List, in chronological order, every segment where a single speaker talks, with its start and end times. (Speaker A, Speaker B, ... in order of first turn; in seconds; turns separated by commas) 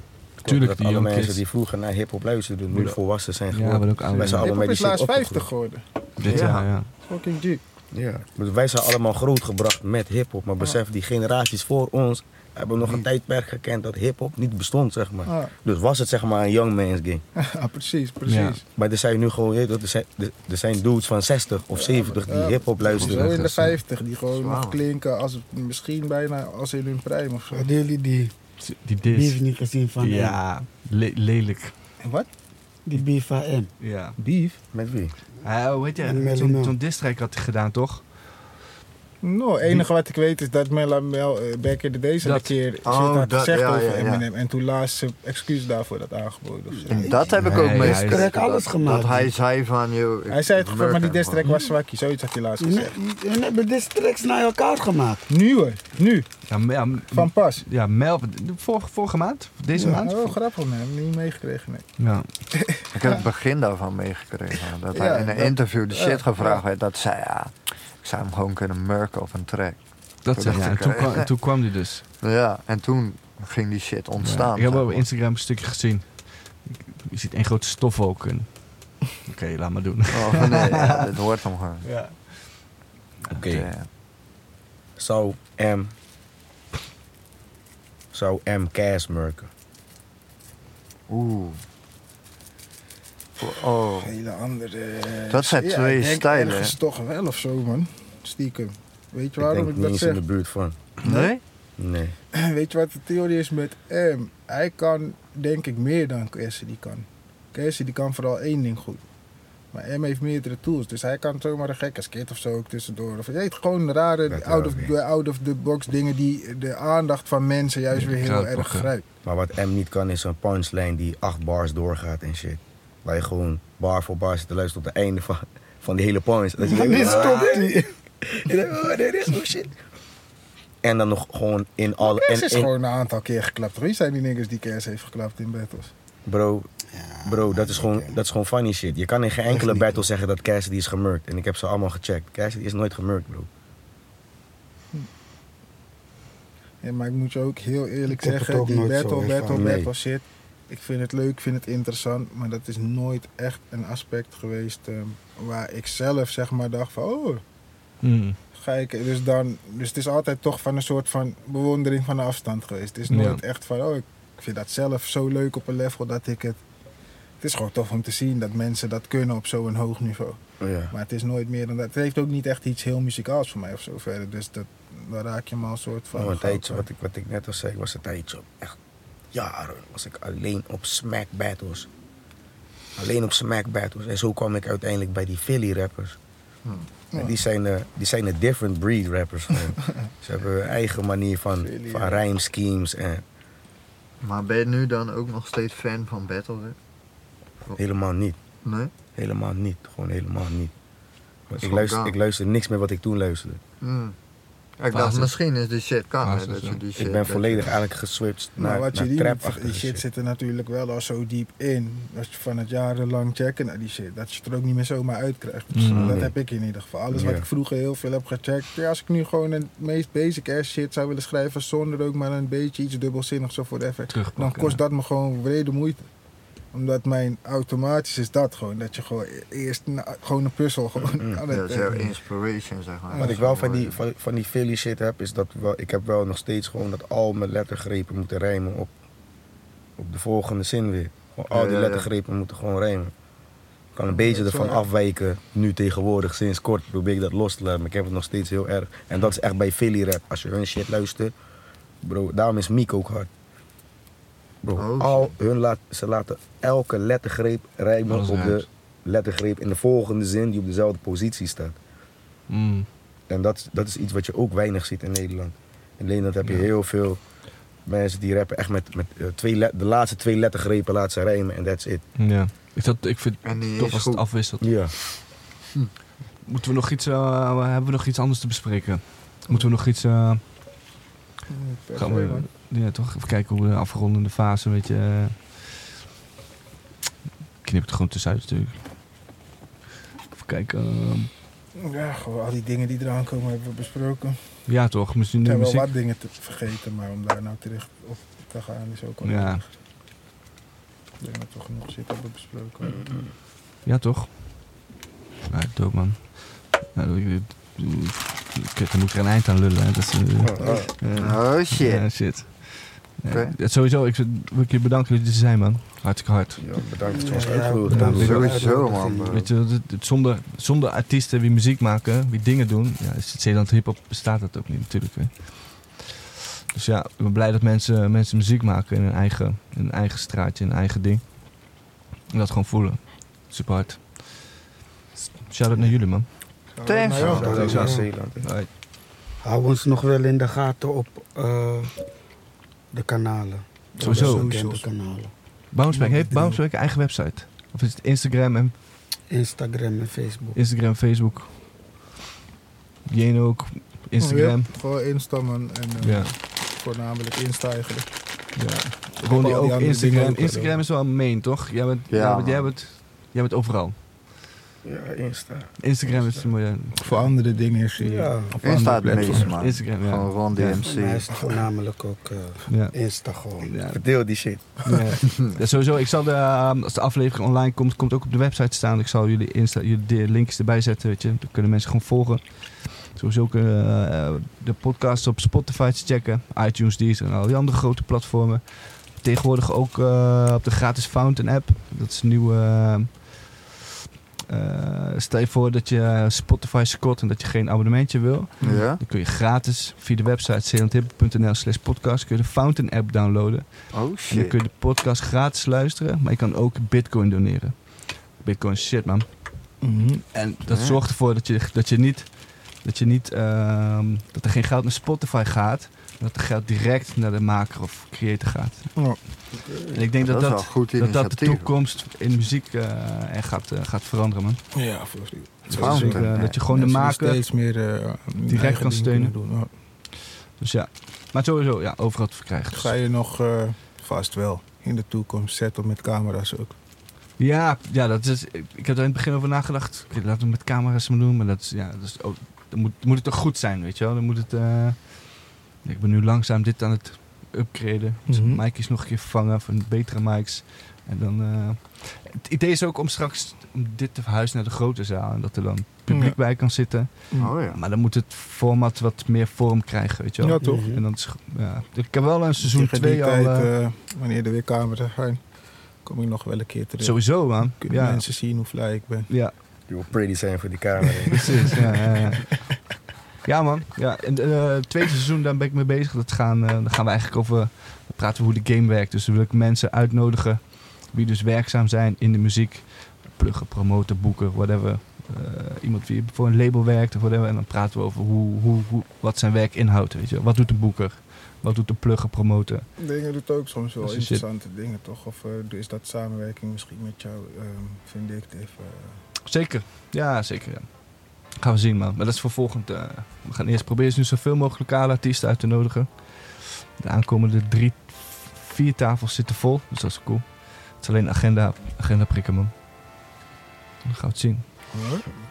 Speaker A: 0.4-5.5, Speaker B: 0.5-1.4, Speaker B: 2.7-3.0, Speaker B: 3.5-4.5, Speaker C: 4.2-7.6, Speaker B: 6.2-6.9, Speaker D: 6.3-6.7, Speaker A: 7.9-17.2, Speaker C: 15.3-15.5, Speaker C: 17.4-18.6, Speaker B: 18.3-18.6, Speaker A: 18.8-23.4, Speaker C: 21.7-27.7, Speaker B: 22.9-23.8, Speaker D: 24.3-24.8, Speaker E: 27.5-28.3, Speaker B: 28.6-29.4, Speaker E: 29.1-30.4, Speaker B: 30.0-31.7, Speaker C: 32.0-32.3, Speaker E: 32.9-33.7, Speaker B: 33.8-34.2, Speaker C: 34.2-34.6, Speaker A: 34.7-35.2, Speaker B: 35.4-38.3, Speaker E: 36.0-36.8, Speaker C: 39.2-47.4, Speaker B: 42.2-42.5, Speaker D: 42.9-44.2, Speaker D: 46.9-51.4, Speaker E: 47.1-49.3, Speaker B: 47.4-48.3, Speaker C: 50.3-53.0, Speaker E: 52.6-55.2, Speaker C: 55.3-56.3, Speaker B: 56.5-60.3, Speaker C: 57.1-57.7, Speaker C: 59.9-61.9, Speaker B: 62.0-62.3, Speaker C: 62.5-63.2, Speaker D: 62.9-71.3, Speaker C: 64.9-66.6, Speaker B: 70.2-72.1, Speaker D: 72.2-75.1, Speaker B: 74.2-81.1, Speaker D: 80.1-81.9, Speaker B: 81.9-82.1, Speaker A: 83.3-83.7, Speaker D: 83.5-83.9, Speaker A: 85.0-85.9, Speaker A: 88.1-89.5, Speaker D: 91.1-91.6, Speaker D: 93.4-94.1, Speaker C: 94.0-100.2, Speaker D: 95.3-96.7, Speaker A: 99.4-100.8, Speaker D: 101.0-101.4, Speaker C: 101.0-101.3, Speaker A: 101.8-102.2, Speaker C: 102.3-109.0, Speaker C: 109.7-119.0, Speaker A: 114.3-114.9, Speaker B: 117.9-118.9, Speaker A: 119.2-129.8, Speaker E: 126.6-127.8, Speaker C: 126.7-127.1, Speaker A: 130.8-132.7, Speaker C: 132.0-135.9, Speaker A: 136.3-136.7, Speaker E: 136.9-138.2, Speaker A: 137.2-143.5, Speaker E: 139.5-140.1, Speaker C: 146.8-157.4, Speaker E: 148.2-149.8, Speaker A: 149.5-149.9, Speaker B: 158.0-158.4, Speaker C: 158.5-166.6, Speaker B: 163.1-163.4, Speaker C: 167.4-170.4, Speaker A: 170.6-170.9, Speaker C: 170.9-176.9, Speaker A: 176.1-178.8, Speaker A: 179.3-181.9, Speaker A: 183.0-186.2, Speaker C: 187.1-187.4, Speaker A: 187.2-193.2, Speaker C: 191.6-192.2, Speaker D: 194.2-196.8, Speaker A: 197.8-198.4, Speaker D: 198.6-198.9, Speaker A: 199.2-200.7, Speaker A: 201.5-203.6, Speaker D: 201.6-202.2, Speaker D: 203.8-204.2, Speaker D: 204.8-207.7, Speaker B: 204.9-205.3, Speaker B: 206.2-206.8, Speaker A: 207.0-210.0, Speaker C: 208.6-226.1, Speaker B: 215.7-216.2, Speaker A: 215.9-216.3, Speaker A: 217.1-217.4, Speaker B: 224.1-224.8, Speaker C: 226.7-232.0, Speaker D: 231.5-234.0, Speaker C: 233.1-233.4, Speaker A: 233.2-238.9, Speaker A: 240.0-243.1, Speaker D: 241.5-242.1, Speaker A: 243.9-251.3, Speaker C: 244.1-244.9, Speaker A: 252.0-253.3, Speaker A: 254.6-261.8, Speaker D: 254.8-255.4, Speaker B: 258.1-258.6, Speaker B: 262.5-262.9, Speaker A: 263.3-267.2, Speaker A: 267.9-272.0, Speaker B: 272.2-274.6, Speaker D: 273.4-274.2, Speaker A: 274.6-274.9, Speaker B: 276.4-280.6, Speaker C: 281.5-282.5, Speaker B: 282.0-286.0, Speaker B: 287.6-288.9, Speaker B: 290.3-291.3, Speaker C: 291.8-294.4, Speaker B: 294.7-295.9, Speaker C: 295.4-299.7, Speaker B: 299.2-299.6, Speaker C: 301.2-303.0, Speaker A: 302.9-303.2, Speaker B: 303.9-304.8, Speaker B: 305.5-316.7, Speaker A: 310.4-310.9, Speaker C: 310.6-310.9, Speaker D: 311.1-312.1, Speaker D: 313.3-313.6, Speaker A: 316.6-318.4, Speaker E: 317.1-319.3, Speaker B: 317.9-318.6, Speaker D: 318.1-319.5, Speaker B: 319.3-326.1, Speaker B: 326.7-331.7, Speaker B: 332.3-334.6, Speaker B: 335.5-336.3, Speaker C: 336.8-337.8, Speaker D: 336.9-337.5, Speaker A: 337.2-338.5, Speaker B: 337.2-338.7, Speaker E: 337.3-338.1, Speaker E: 339.4-341.9, Speaker E: 342.9-345.3, Speaker C: 344.0-344.9, Speaker B: 344.0-344.5, Speaker B: 345.7-348.8, Speaker C: 345.9-346.6, Speaker E: 349.3-350.6, Speaker B: 350.6-351.5, Speaker B: 353.1-354.7, Speaker C: 354.2-358.1, Speaker B: 356.0-356.3, Speaker B: 358.6-364.0, Speaker C: 359.2-360.8, Speaker D: 362.1-362.7, Speaker A: 364.8-366.5, Speaker B: 365.8-367.3, Speaker C: 367.0-369.5, Speaker E: 368.0-368.6, Speaker D: 368.6-371.3, Speaker B: 369.2-370.8, Speaker E: 370.8-373.8, Speaker B: 372.7-373.0, Speaker B: 373.6-374.0, Speaker A: 373.9-374.9, Speaker B: 374.8-393.7, Speaker B: 394.5-409.4, Speaker D: 398.6-399.0, Speaker D: 403.9-404.6, Speaker C: 409.8-410.3, Speaker B: 410.3-419.2, Speaker D: 410.7-411.0, Speaker B: 419.9-424.6, Speaker D: 420.2-421.7, Speaker C: 424.7-429.7, Speaker B: 425.7-427.4, Speaker D: 425.7-426.6, Speaker B: 428.5-429.4, Speaker B: 430.1-432.9, Speaker C: 432.7-436.8, Speaker B: 437.4-463.7, Speaker C: 448.3-448.6, Speaker C: 456.1-456.4, Speaker D: 457.4-457.8, Speaker C: 460.4-460.9, Speaker E: 460.6-461.0, Speaker C: 462.6-465.4, Speaker C: 466.0-469.3, Speaker B: 467.0-468.3, Speaker B: 469.3-469.5, Speaker A: 469.9-472.0, Speaker C: 471.3-472.1, Speaker B: 471.3-472.7, Speaker B: 473.4-492.9, Speaker C: 493.0-499.2, Speaker B: 494.0-494.4, Speaker B: 499.4-501.0, Speaker B: 501.5-512.7, Speaker B: 514.0-515.1, Speaker C: 514.9-515.3